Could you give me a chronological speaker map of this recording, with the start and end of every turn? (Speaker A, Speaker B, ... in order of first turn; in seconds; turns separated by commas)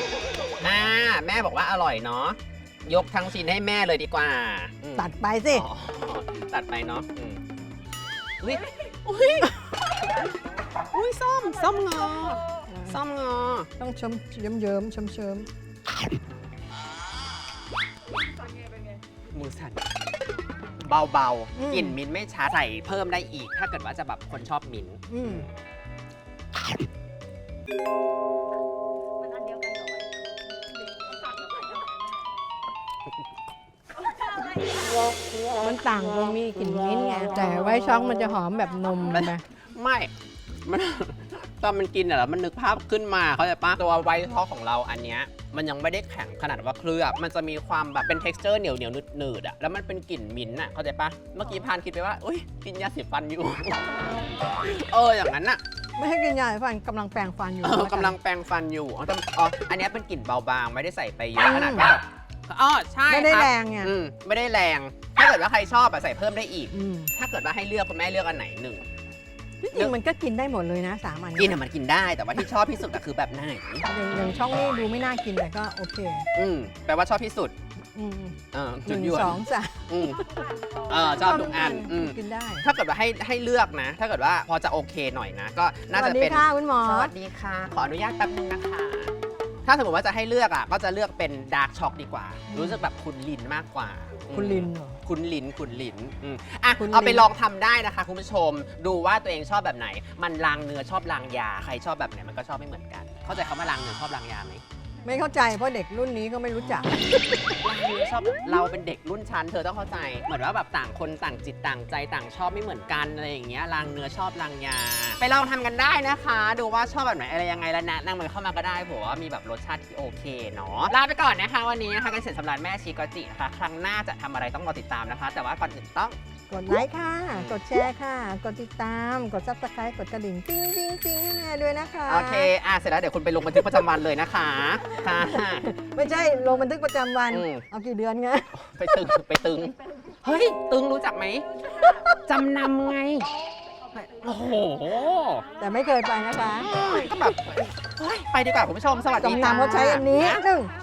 Speaker A: 0.6-7.4, Speaker B: 5.0-5.7, Speaker A: 8.4-10.2, Speaker A: 10.9-13.7, Speaker B: 12.7-13.0, Speaker B: 13.8-15.5, Speaker A: 19.3-19.8, Speaker A: 20.8-25.5, Speaker B: 21.6-22.0, Speaker B: 25.1-25.5, Speaker C: 29.2-30.1, Speaker C: 30.8-31.9, Speaker C: 34.4-34.9, Speaker B: 35.6-39.4, Speaker A: 39.1-40.1, Speaker A: 40.6-55.6, Speaker B: 56.0-58.2, Speaker A: 57.6-68.9, Speaker B: 61.4-61.9, Speaker B: 63.1-63.9, Speaker B: 66.7-67.1, Speaker B: 69.6-71.5, Speaker A: 71.4-73.9, Speaker B: 73.9-76.3, Speaker A: 76.3-77.5, Speaker B: 78.0-80.1, Speaker A: 78.5-80.2, Speaker A: 80.9-89.1, Speaker B: 81.1-82.7, Speaker B: 85.9-87.1, Speaker A: 89.7-104.6, Speaker B: 92.5-92.8, Speaker B: 94.3-95.0, Speaker B: 96.8-97.3, Speaker B: 105.0-107.4, Speaker A: 107.6-126.2, Speaker B: 126.5-132.5, Speaker A: 127.3-127.6, Speaker A: 132.1-135.7, Speaker B: 135.3-138.5, Speaker A: 137.3-137.7, Speaker A: 138.5-143.3, Speaker B: 141.8-142.1, Speaker A: 144.2-145.4, Speaker B: 145.6-146.8, Speaker A: 146.6-150.4, Speaker B: 149.2-150.7